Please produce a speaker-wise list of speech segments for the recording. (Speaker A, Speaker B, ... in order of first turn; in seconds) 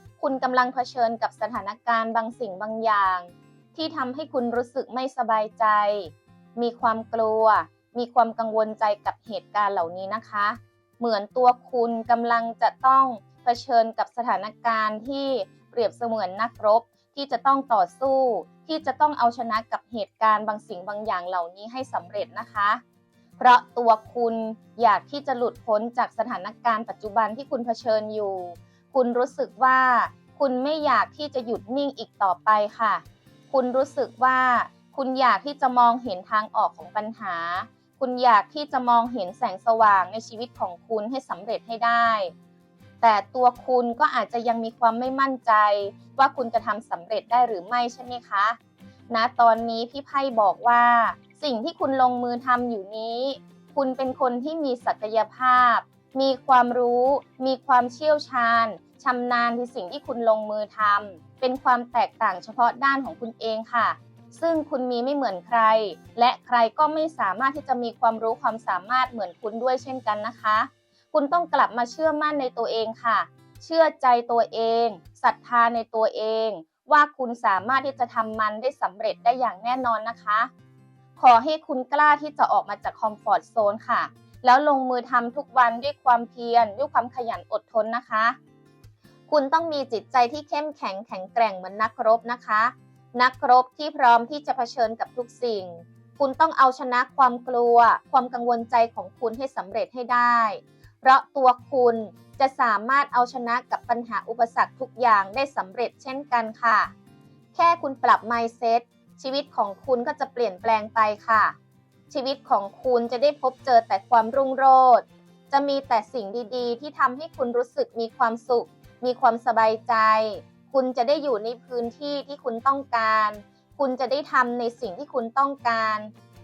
Speaker A: 0.2-22.8, 23.4-42.3, 43.0-48.6, 49.1-80.5, 81.2-88.4, 89.3-106.9, 107.5-111.5, 112.1-126.1